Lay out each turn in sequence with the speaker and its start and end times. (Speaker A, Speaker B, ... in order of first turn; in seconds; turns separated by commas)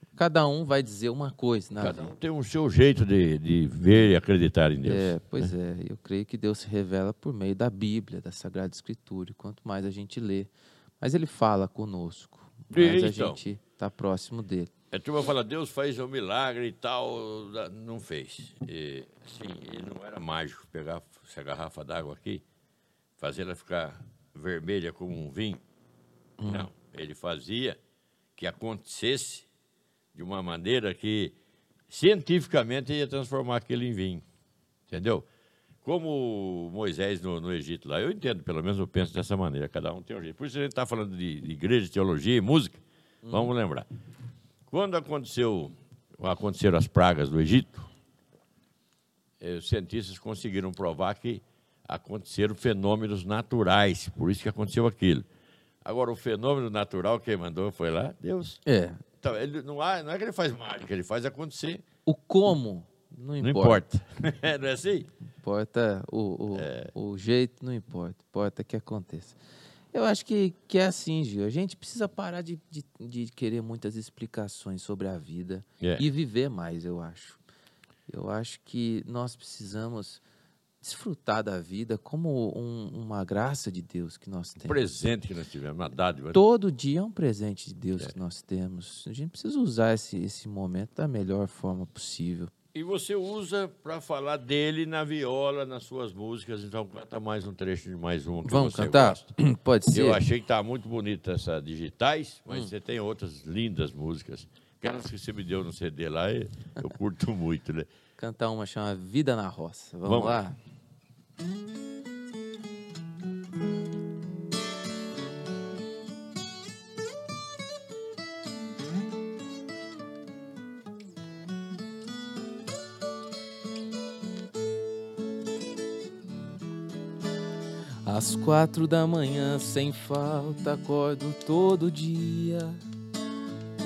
Speaker A: 0.1-2.1, Speaker B: 1.8-5.5, Speaker A: 4.8-14.7, Speaker B: 12.7-13.4, Speaker B: 14.9-22.4, Speaker B: 23.2-25.6, Speaker A: 26.4-26.7, Speaker B: 26.5-27.8, Speaker B: 28.4-29.4, Speaker B: 30.1-31.3, Speaker B: 31.9-34.2, Speaker B: 34.9-35.2, Speaker B: 35.8-43.9, Speaker A: 43.2-43.5, Speaker B: 44.7-47.9, Speaker B: 49.4-55.2, Speaker B: 55.8-58.6, Speaker A: 58.6-59.0, Speaker B: 59.2-61.8, Speaker A: 62.0-63.8, Speaker B: 63.4-65.1, Speaker A: 65.4-69.4, Speaker B: 66.5-66.9, Speaker A: 69.9-77.4, Speaker A: 78.1-80.2, Speaker A: 80.8-84.8, Speaker B: 84.6-86.4, Speaker A: 86.3-92.5, Speaker B: 92.7-99.3, Speaker A: 98.4-100.2, Speaker B: 99.9-107.9, Speaker A: 108.2-110.6, Speaker B: 110.1-110.4, Speaker A: 128.0-132.8